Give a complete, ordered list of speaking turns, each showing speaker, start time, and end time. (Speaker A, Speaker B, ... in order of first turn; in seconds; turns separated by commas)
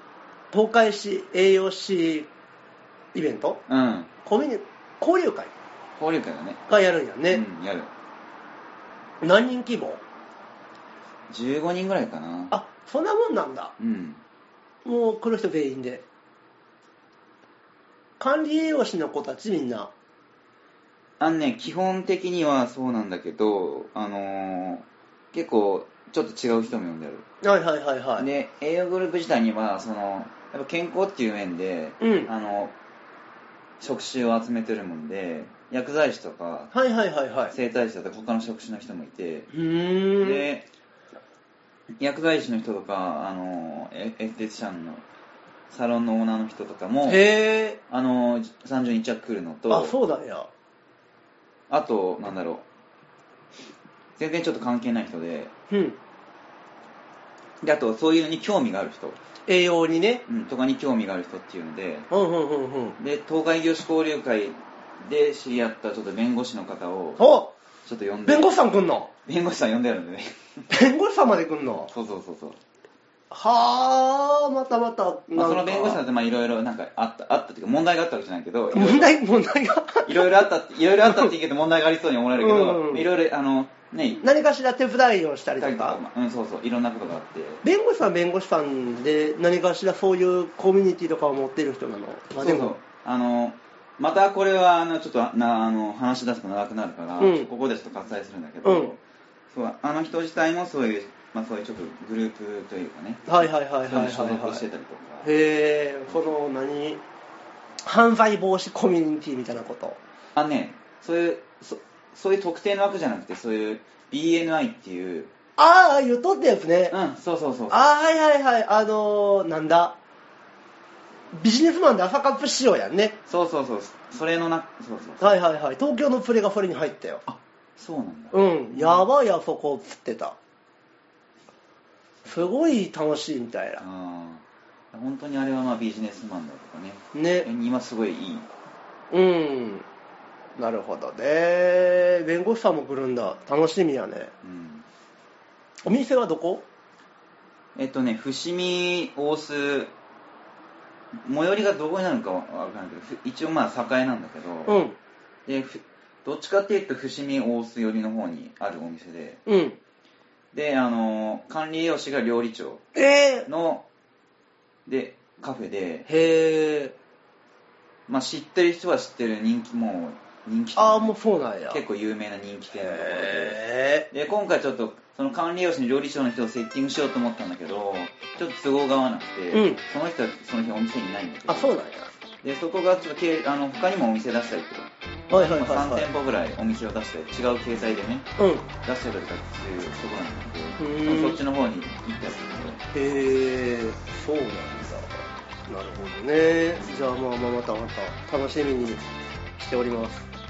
Speaker A: 0.5-2.3, Speaker A: 3.1-3.6, Speaker B: 3.7-4.1, Speaker A: 4.2-5.5, Speaker B: 6.0-6.6, Speaker A: 6.7-7.4, Speaker B: 7.3-7.9, Speaker A: 9.2-10.0, Speaker B: 11.3-12.5, Speaker A: 12.5-13.7, Speaker B: 13.8-14.2, Speaker A: 14.8-16.0, Speaker A: 18.2-19.9, Speaker B: 21.2-27.2, Speaker A: 27.4-28.3, Speaker B: 28.2-32.7, Speaker A: 32.0-32.3, Speaker B: 33.8-36.7, Speaker A: 36.7-37.5, Speaker B: 37.5-39.5, Speaker A: 39.5-40.5, Speaker B: 40.2-40.7, Speaker B: 42.0-45.0, Speaker B: 45.7-47.2, Speaker A: 47.1-47.8, Speaker B: 47.9-50.0, Speaker A: 49.7-50.5, Speaker B: 51.7-52.6, Speaker B: 54.2-55.5, Speaker A: 55.7-56.0, Speaker B: 57.6-59.2, Speaker A: 59.5-60.2, Speaker B: 60.3-62.1, Speaker A: 62.1-63.0, Speaker B: 63.0-67.2, Speaker A: 67.2-67.5, Speaker B: 67.8-68.5, Speaker A: 68.3-69.1, Speaker B: 69.3-70.3, Speaker A: 70.7-71.9, Speaker B: 71.9-72.6, Speaker A: 73.3-76.0, Speaker B: 75.3-79.2, Speaker A: 78.7-80.5, Speaker B: 80.1-84.2, Speaker A: 81.0-81.3, Speaker A: 82.4-83.1, Speaker A: 84.2-86.0, Speaker B: 85.6-87.6, Speaker A: 87.6-92.8, Speaker B: 92.4-99.0, Speaker A: 97.2-97.5, Speaker A: 98.6-99.0, Speaker B: 99.5-105.3, Speaker A: 103.3-104.6, Speaker A: 105.2-107.0, Speaker A: 107.8-110.0, Speaker B: 110.4-115.3, Speaker A: 115.6-117.0, Speaker B: 116.9-117.8, Speaker A: 117.7-120.0, Speaker A: 121.3-123.2, Speaker B: 123.3-125.4, Speaker A: 125.2-127.2, Speaker B: 127.3-129.1, Speaker A: 128.3-130.4, Speaker A: 132.2-133.8, Speaker B: 133.8-138.5, Speaker A: 137.1-137.5, Speaker A: 139.1-139.9, Speaker A: 140.6-144.3, Speaker B: 144.4-144.8, Speaker A: 145.8-146.7, Speaker B: 147.8-149.9, Speaker B: 151.1-154.8, Speaker A: 154.7-155.0, Speaker B: 155.5-159.4, Speaker A: 159.5-159.8, Speaker B: 160.5-162.8, Speaker A: 162.9-163.5, Speaker B: 163.5-163.8, Speaker B: 164.9-166.1, Speaker A: 166.1-167.0, Speaker B: 168.1-171.1, Speaker A: 170.8-171.8, Speaker B: 171.7-181.7, Speaker A: 172.7-174.1, Speaker A: 179.5-179.8, Speaker A: 181.5-182.1, Speaker B: 182.4-192.8, Speaker A: 185.3-186.1, Speaker A: 188.4-188.7, Speaker A: 190.8-191.4, Speaker A: 192.9-199.0, Speaker A: 199.6-200.3